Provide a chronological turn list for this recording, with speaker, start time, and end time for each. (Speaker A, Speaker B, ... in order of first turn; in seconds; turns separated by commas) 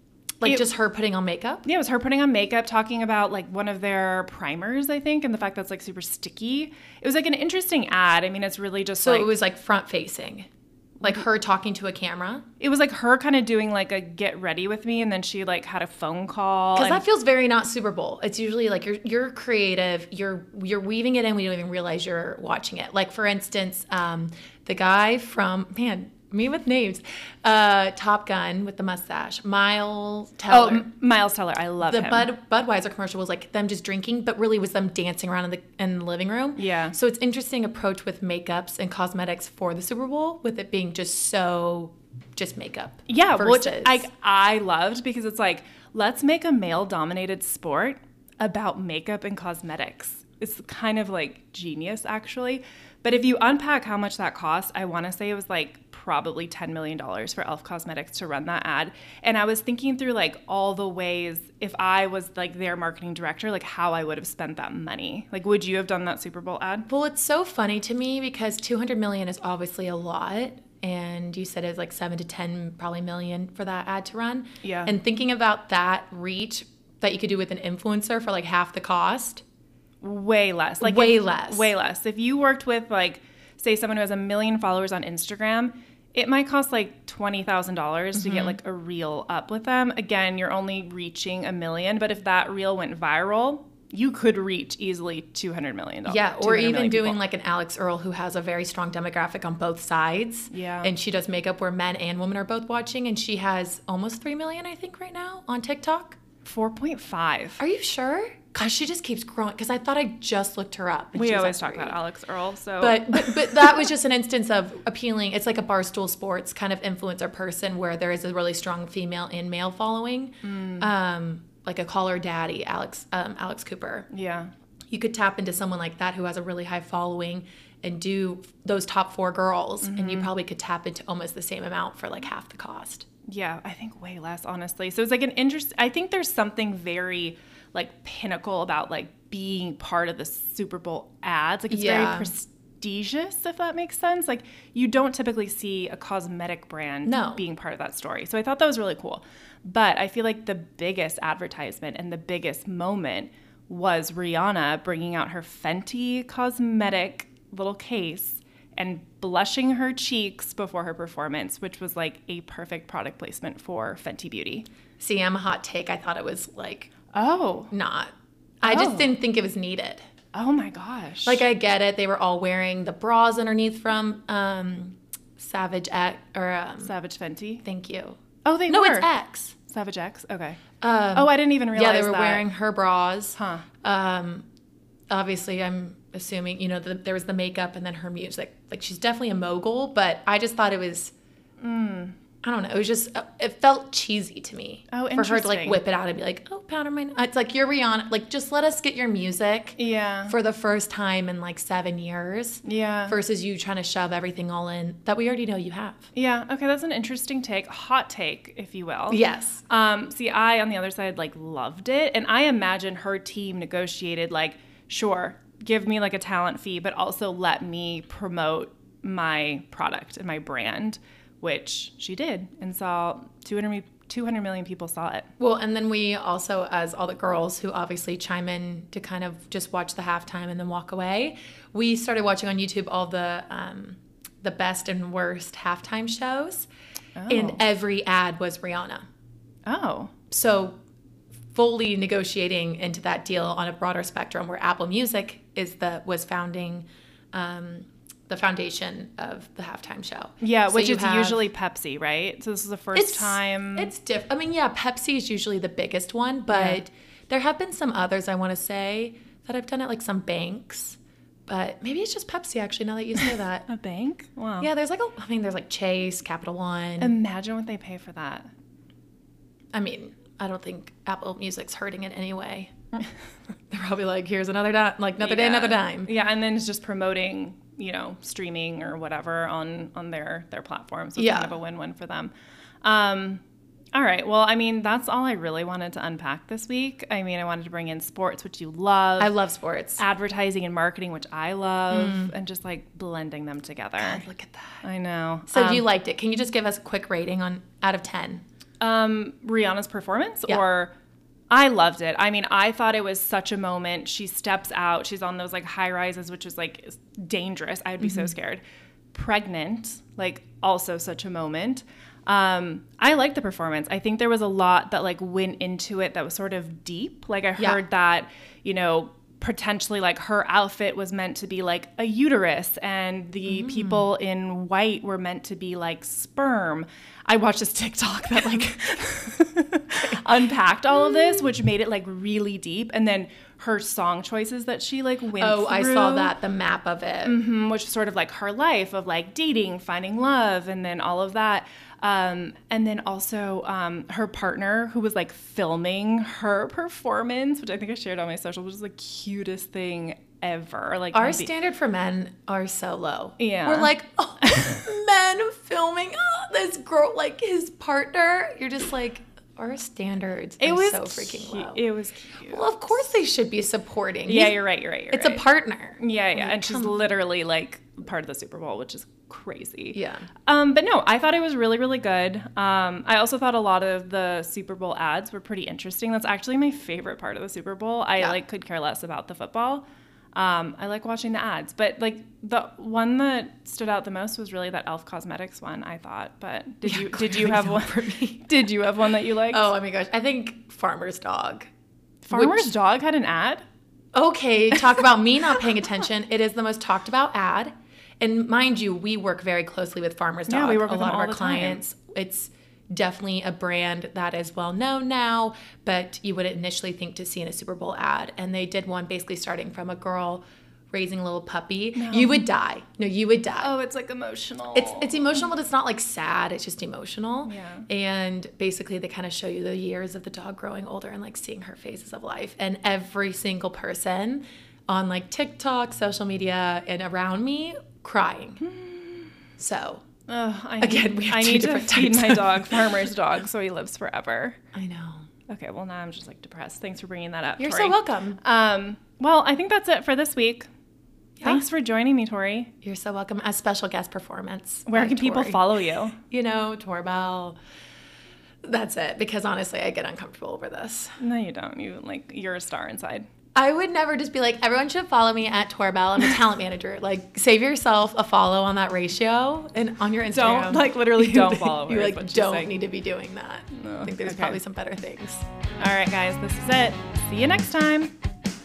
Speaker A: 0.4-1.7, Speaker B: 1.7-9.4, Speaker A: 9.0-10.5, Speaker A: 11.0-12.5, Speaker B: 12.6-17.1, Speaker A: 16.8-30.9, Speaker B: 30.5-32.3, Speaker A: 31.8-44.1, Speaker B: 36.6-37.0, Speaker B: 43.1-66.9, Speaker A: 66.9-79.4, Speaker B: 74.6-75.0, Speaker B: 80.0-97.2, Speaker A: 80.8-81.7, Speaker A: 88.2-88.6, Speaker A: 96.1-106.2, Speaker B: 100.5-101.0, Speaker B: 106.4-107.6, Speaker A: 107.6-112.0, Speaker B: 111.2-113.9, Speaker A: 112.8-124.1, Speaker B: 120.4-120.9, Speaker B: 124.1-124.5, Speaker A: 124.9-133.1, Speaker B: 129.8-130.3, Speaker B: 133.3-164.7, Speaker A: 141.7-142.3, Speaker A: 147.1-147.4, Speaker A: 165.0-166.9, Speaker B: 167.1-167.7, Speaker A: 167.7-170.0, Speaker B: 168.6-169.1, Speaker B: 170.3-171.4, Speaker A: 171.2-176.9, Speaker B: 176.8-177.6, Speaker A: 177.6-179.6, Speaker B: 178.4-179.1, Speaker B: 179.6-180.6, Speaker A: 180.8-184.4, Speaker B: 181.2-182.5, Speaker B: 183.3-183.7, Speaker A: 185.1-191.1, Speaker B: 191.6-192.2, Speaker A: 192.4-206.1, Speaker B: 194.9-195.8, Speaker B: 199.8-200.4, Speaker B: 202.6-203.2, Speaker B: 206.2-225.3, Speaker A: 209.1-209.6, Speaker A: 225.4-236.7, Speaker B: 237.2-237.6, Speaker A: 237.3-239.1, Speaker B: 239.7-240.1, Speaker A: 240.3-240.8, Speaker A: 241.5-251.5, Speaker B: 250.4-253.9, Speaker A: 252.9-263.7, Speaker B: 256.5-256.8, Speaker B: 263.7-264.7, Speaker A: 264.6-267.2, Speaker B: 267.0-268.5, Speaker A: 269.7-272.7, Speaker A: 273.7-276.1, Speaker B: 275.2-282.3, Speaker A: 281.2-281.6, Speaker B: 282.8-283.4, Speaker B: 283.9-289.4, Speaker A: 289.2-290.0, Speaker B: 290.0-294.3, Speaker A: 291.9-292.3, Speaker A: 294.0-294.8, Speaker B: 294.8-295.9, Speaker A: 295.5-298.4, Speaker B: 298.8-300.9, Speaker B: 301.5-336.3, Speaker A: 308.0-308.3, Speaker A: 323.5-324.1, Speaker A: 335.4-337.4, Speaker B: 337.2-351.5, Speaker A: 351.1-361.8, Speaker B: 353.4-354.8, Speaker B: 360.6-363.1, Speaker A: 362.5-367.0, Speaker B: 364.3-365.4, Speaker B: 366.0-389.7, Speaker A: 369.9-370.3, Speaker A: 386.8-388.4, Speaker A: 389.5-391.7, Speaker B: 392.2-393.6, Speaker A: 392.3-392.7, Speaker A: 394.1-413.7, Speaker B: 400.5-401.8, Speaker B: 411.9-412.5, Speaker B: 413.6-415.4, Speaker A: 414.7-428.6, Speaker B: 417.4-417.9, Speaker B: 428.6-429.3, Speaker A: 429.6-430.0, Speaker B: 430.3-434.6, Speaker A: 430.8-433.0, Speaker A: 434.7-435.3, Speaker B: 435.5-440.7, Speaker A: 437.6-438.4, Speaker B: 441.4-442.7, Speaker A: 442.8-445.7, Speaker B: 444.9-446.2, Speaker A: 446.3-447.6, Speaker A: 448.6-451.2, Speaker B: 451.2-453.3, Speaker A: 453.6-465.4, Speaker B: 460.3-462.7, Speaker B: 463.7-464.6, Speaker B: 465.8-468.1